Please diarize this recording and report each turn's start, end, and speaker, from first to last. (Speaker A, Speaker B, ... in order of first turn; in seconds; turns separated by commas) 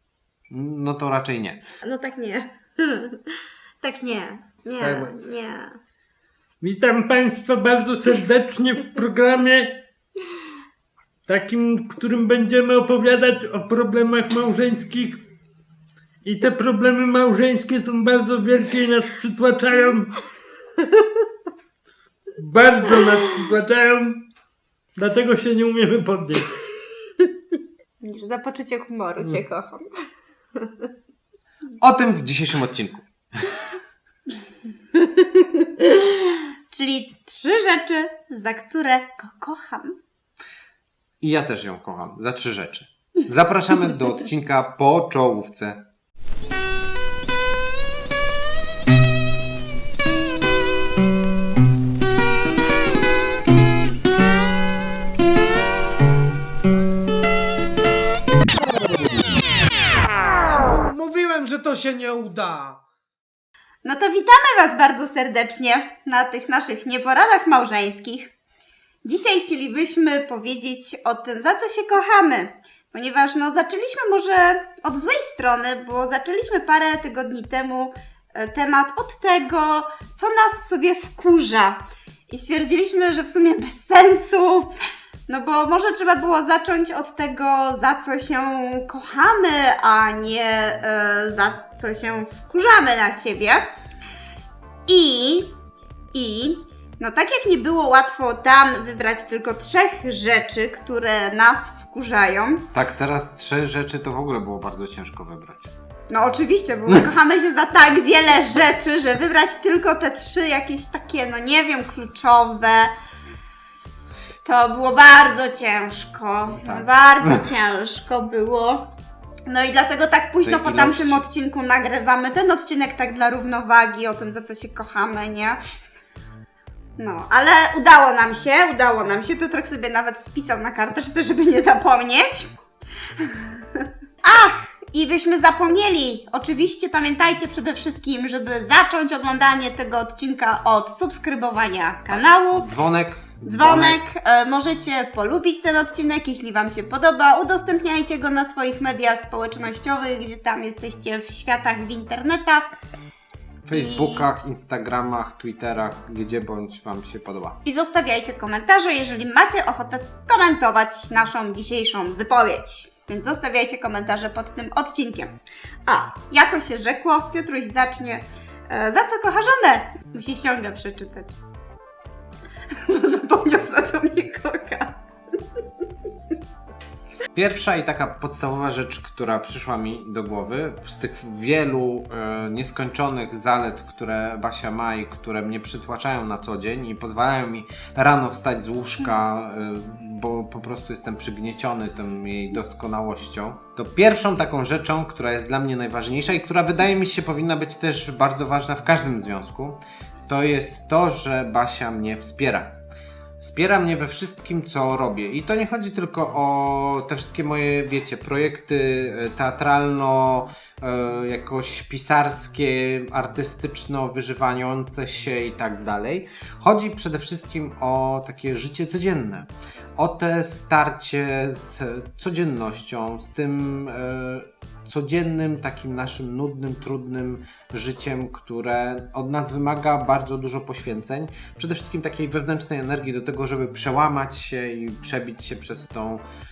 Speaker A: 0.5-1.6, Speaker B: 1.8-5.8, Speaker C: 4.8-5.1, Speaker C: 6.6-9.8, Speaker C: 11.3-15.2, Speaker C: 16.2-20.1, Speaker C: 22.4-24.3, Speaker C: 25.0-26.7, Speaker B: 28.0-30.0, Speaker B: 30.6-30.9, Speaker A: 31.8-33.5, Speaker B: 35.0-40.0, Speaker A: 41.2-45.9, Speaker A: 60.7-62.7, Speaker B: 63.9-68.3, Speaker B: 69.0-84.7, Speaker B: 85.3-93.6, Speaker B: 94.9-95.5, Speaker B: 96.1-102.7, Speaker A: 102.7-105.7, Speaker B: 106.1-112.9, Speaker B: 114.4-118.9, Speaker A: 116.5-116.9, Speaker B: 119.5-125.6, Speaker A: 120.4-121.3, Speaker B: 127.0-132.5, Speaker B: 133.2-142.7, Speaker A: 142.1-144.0, Speaker B: 143.5-152.7, Speaker A: 153.7-157.6, Speaker B: 153.7-154.3, Speaker B: 157.7-165.3, Speaker B: 165.9-171.4, Speaker B: 172.7-175.0, Speaker A: 177.3-202.8, Speaker A: 203.4-236.2